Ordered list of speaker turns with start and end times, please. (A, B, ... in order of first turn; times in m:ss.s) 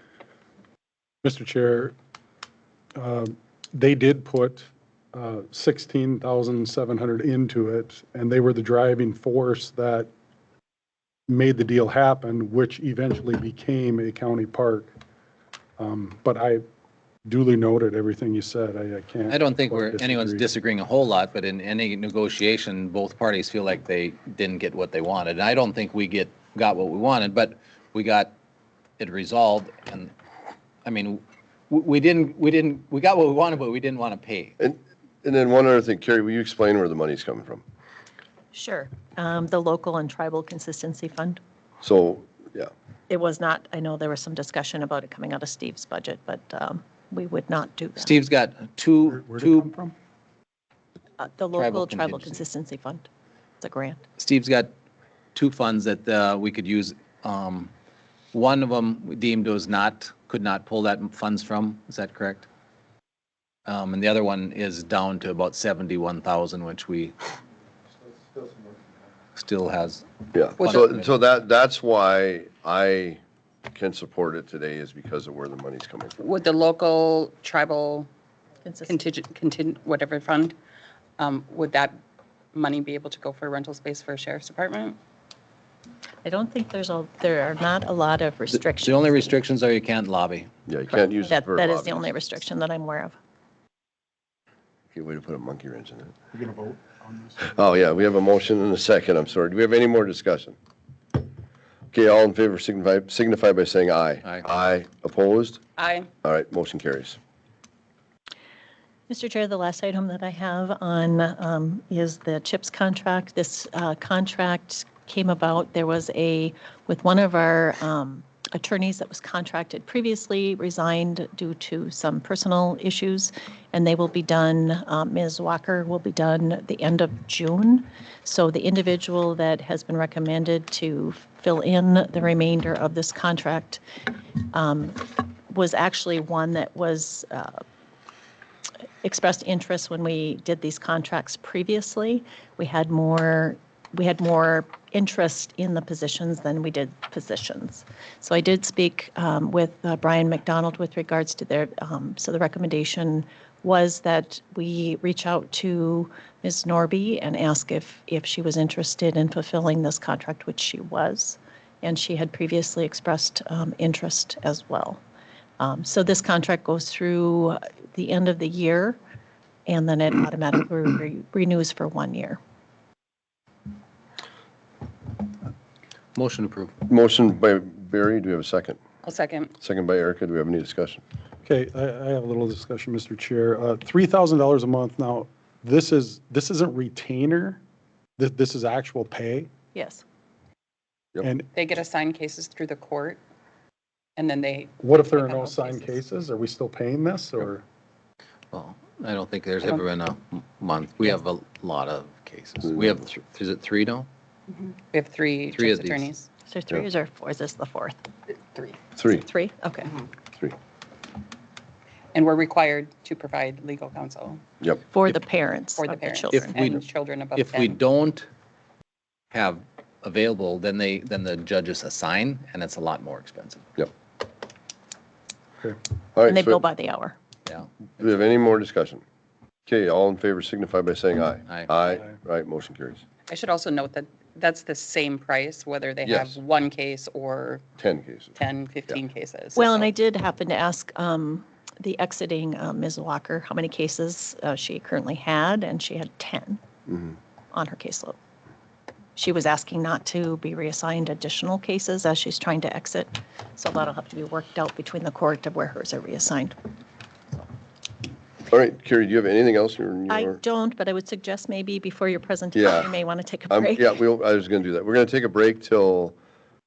0:01.2-0:02.0 A
0:03.0-0:10.1 A
0:11.3-0:14.9 A
0:15.8-0:16.6 A
0:17.3-0:20.4 A
0:19.3-0:28.3 B
0:29.0-0:30.1 B
0:30.8-0:34.6 B
0:34.6-0:37.6 C
0:38.5-0:41.4 D
0:41.8-0:42.7 C
0:43.1-0:48.2 D
0:48.0-0:49.7 B
0:49.1-0:49.9 A
0:51.2-0:53.1 D
0:51.5-0:52.4 B
0:53.6-0:54.0 D
0:54.2-0:54.7 B
0:55.3-0:57.7 B
0:58.3-1:02.5 B
1:03.7-1:07.1 B
1:09.4-1:11.1 B
1:10.3-1:16.2 C
1:16.2-1:18.1 E
1:18.6-1:19.0 D
1:18.9-1:20.6 E
1:21.2-1:22.0 E
1:22.5-1:25.0 E
1:26.2-1:29.3 D
1:28.5-1:30.5 B
1:30.7-1:32.3 C
1:31.3-1:33.2 D
1:34.9-1:36.2 C
1:37.4-1:40.6 C
1:41.9-1:45.6 C
1:45.8-1:46.1 E
1:46.2-1:47.2 C
1:49.1-2:13.8 D
2:14.4-2:17.6 D
2:19.0-2:45.0 D
2:45.6-2:49.0 D
2:49.7-2:52.4 D
2:56.2-2:56.8 B
2:56.9-2:58.8 C
2:59.0-2:59.5 E
2:59.6-3:01.0 C
3:01.4-3:07.6 A
3:08.2-3:09.5 A
3:09.7-3:10.0 D
3:11.2-3:11.5 A
3:11.5-3:13.2 E
3:14.2-3:15.9 E
3:14.8-3:17.6 A
3:18.5-3:24.1 B
3:24.5-3:26.3 E
3:25.5-3:26.1 B
3:26.5-3:28.0 D
3:29.0-3:29.2 C
3:29.1-3:30.0 D
3:32.1-3:34.4 E
3:34.9-3:36.5 D
3:35.8-3:37.8 E
3:36.3-3:38.3 B
3:39.3-3:43.7 B
3:46.2-3:46.6 C
3:46.3-3:47.2 D
3:48.0-3:49.0 C
3:49.7-3:53.0 C
3:53.3-3:57.6 E
3:56.0-3:56.4 C
3:57.8-3:58.4 C
3:58.4-3:59.9 E
3:59.6-4:06.6 D
4:07.5-4:08.2 D
4:09.2-4:16.6 D
4:18.5-4:20.4 C
4:20.1-4:23.9 D
4:22.6-4:22.9 C
4:23.5-4:26.2 C